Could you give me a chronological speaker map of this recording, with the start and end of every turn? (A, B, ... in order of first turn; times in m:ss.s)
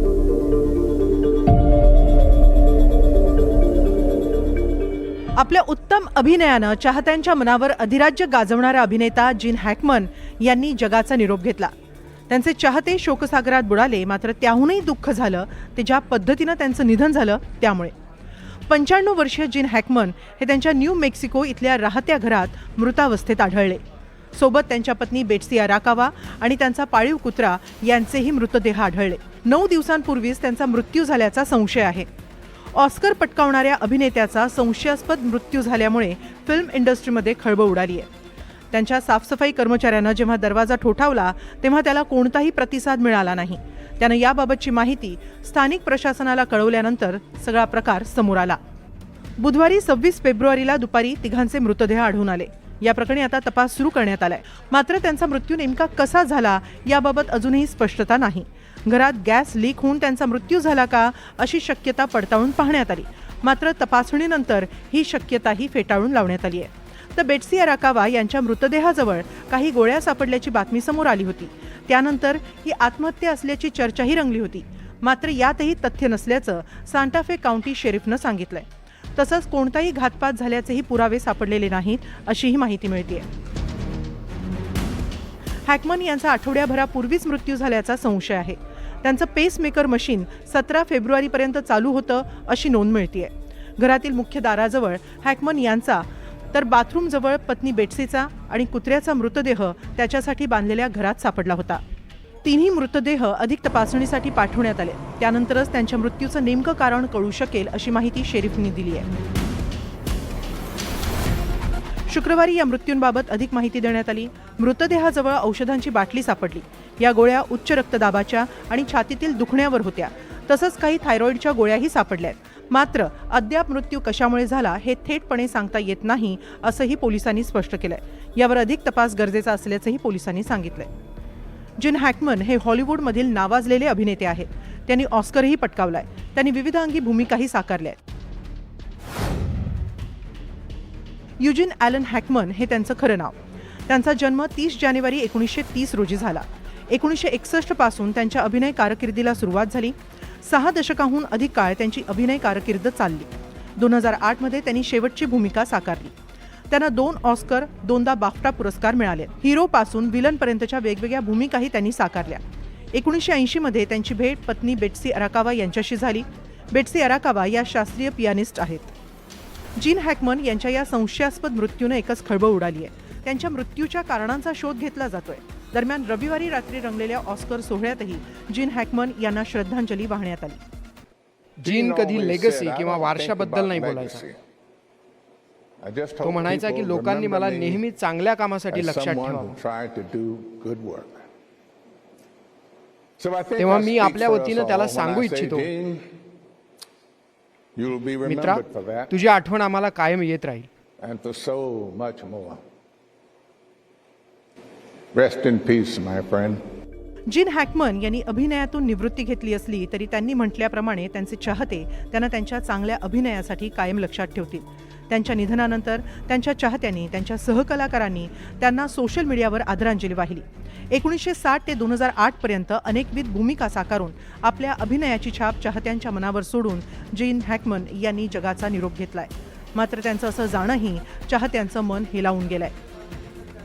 0:05.4-0:11.7 A
0:12.3-0:17.9 A
0:18.7-0:23.8 A
0:24.4-0:32.1 A
0:32.7-0:38.1 A
0:38.7-0:48.6 A
0:49.4-1:23.3 A
1:25.6-1:41.8 A
1:42.4-1:49.1 A
1:52.1-2:10.9 A
2:11.8-2:18.0 A
2:21.4-2:36.1 A
2:36.7-2:42.4 A
2:42.9-2:48.9 A
2:49.8-3:00.6 A
3:01.6-3:04.2 B
3:01.6-3:04.4 C
3:05.8-3:07.8 C
3:06.2-3:09.6 B
3:08.7-3:11.3 C
3:13.2-3:16.0 C
3:13.6-3:15.7 B
3:17.8-3:19.1 C
3:18.2-3:20.7 B
3:21.0-3:22.6 C
3:25.1-3:26.6 C
3:27.3-3:52.7 A